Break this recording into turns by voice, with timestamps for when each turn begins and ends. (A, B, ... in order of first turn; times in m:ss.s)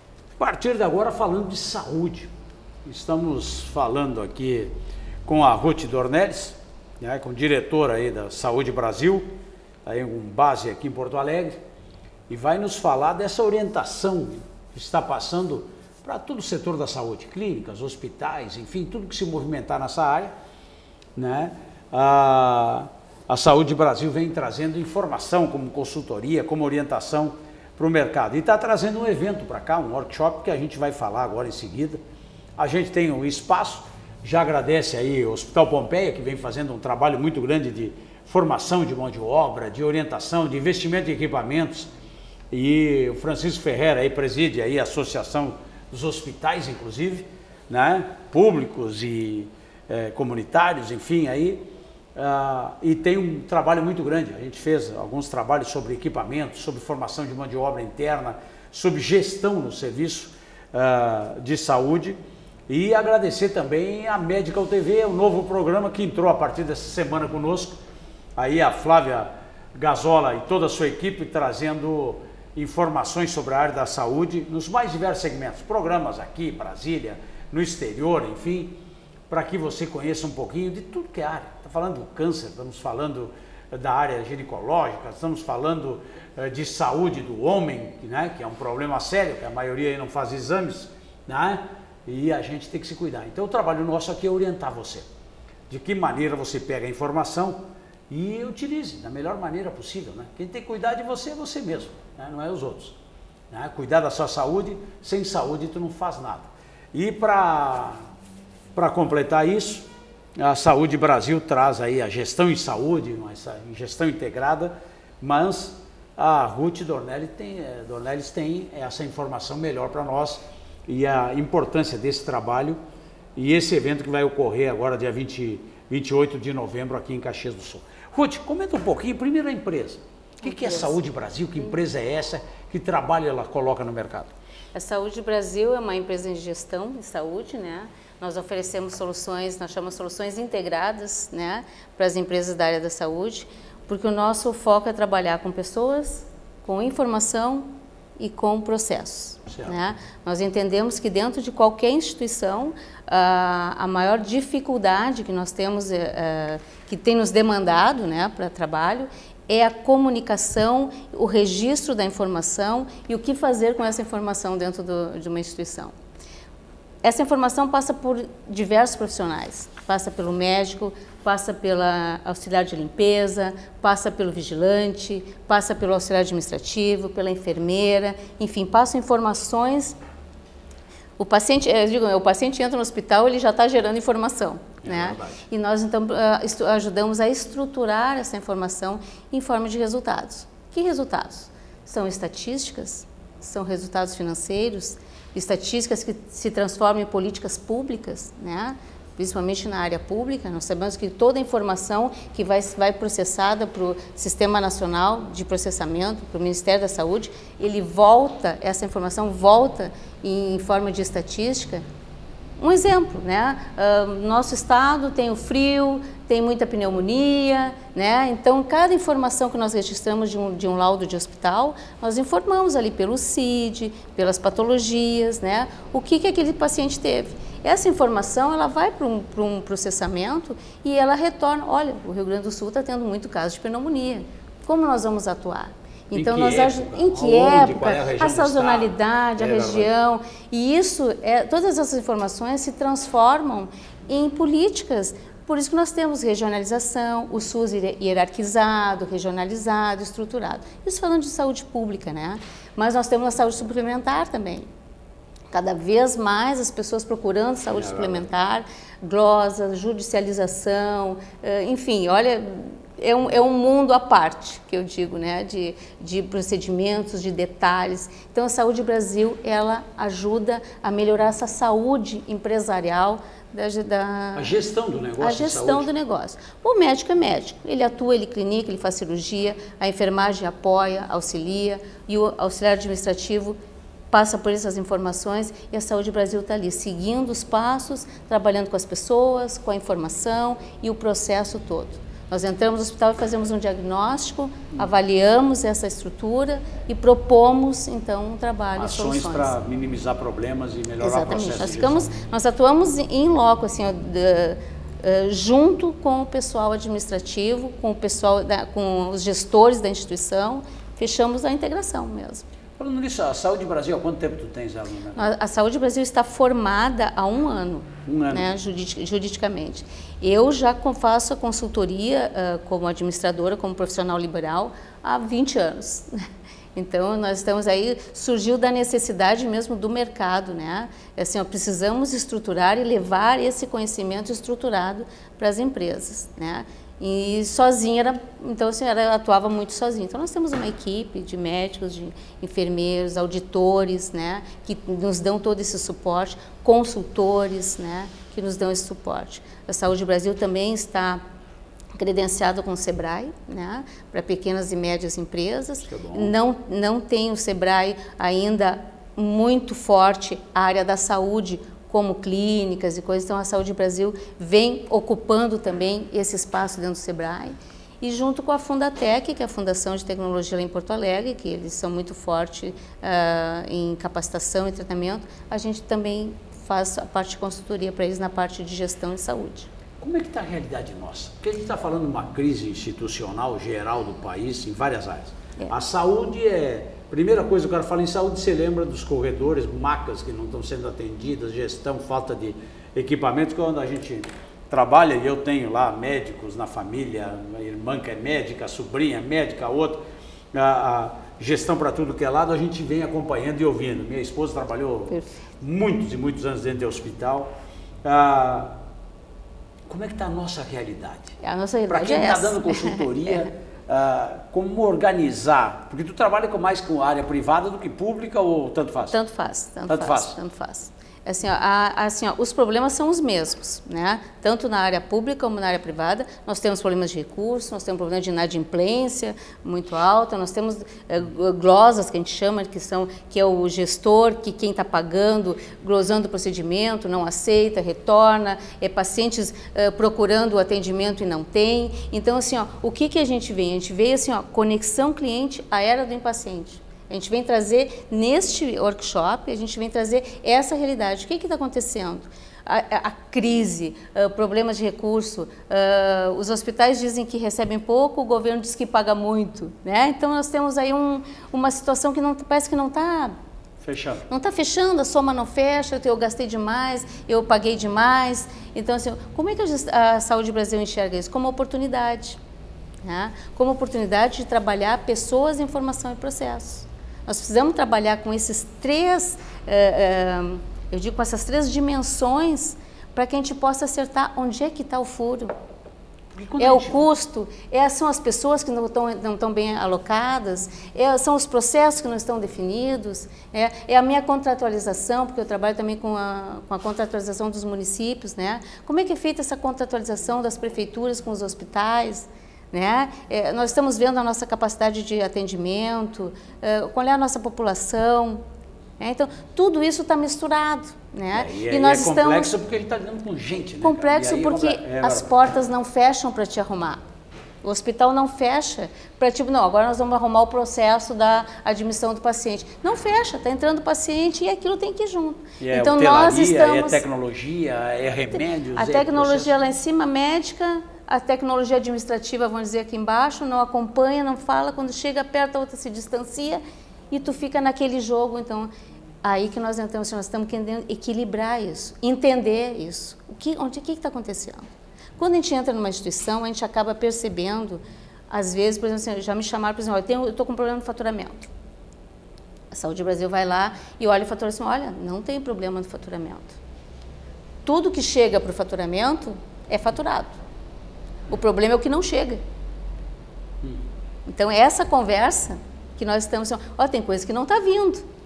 0:00.4-0:02.3 A
0:02.8-0:04.7 A
0:05.2-0:09.3 A
0:09.8-0:11.6 A
0:12.3-0:20.3 A
0:21.2-0:32.0 A
0:32.6-0:41.9 A
0:42.5-0:51.6 A
0:52.1-1:07.8 A
1:08.4-1:18.8 A
1:19.3-1:35.1 A
1:35.7-1:43.0 A
1:43.5-1:48.1 A
1:48.7-2:02.8 A
2:03.4-2:14.3 A
2:10.4-2:11.0 B
2:14.7-2:27.7 B
2:28.2-2:45.9 B
2:29.5-2:29.8 A
2:47.0-3:00.0 B
3:01.2-3:31.8 B
3:04.8-3:05.5 A
3:32.6-4:14.7 B
3:56.1-3:59.9 A
4:15.5-4:34.5 B
4:17.7-4:18.3 A
4:34.3-4:35.9 A
4:35.2-4:43.6 B
4:44.1-4:59.6 B
4:58.8-5:02.0 A
5:01.0-5:12.4 B
5:12.8-5:15.2 A
5:15.1-5:26.2 B
5:18.0-5:18.5 A
5:26.7-5:51.2 B
5:51.9-6:19.7 B
5:55.8-5:56.3 A
6:20.0-6:40.0 A
6:40.5-6:47.5 A
6:45.1-6:45.4 B
6:48.0-6:48.8 A
6:49.9-6:51.3 A
6:51.4-6:53.5 B
6:51.9-6:59.2 A
6:59.1-7:43.3 B
6:59.9-7:00.4 A
7:43.8-7:44.2 A
7:44.3-7:52.4 B
7:53.0-8:05.5 B
8:06.3-8:07.0 A
8:06.6-8:28.4 B
8:29.0-8:32.5 B
8:31.3-8:35.3 A
8:33.8-8:37.0 B
8:37.6-8:47.0 B
8:45.6-8:49.5 A
8:48.4-8:58.7 B
8:59.2-9:11.5 B
9:12.7-9:16.6 B
9:17.6-9:20.4 B
9:21.3-9:22.4 B
9:24.2-9:28.0 B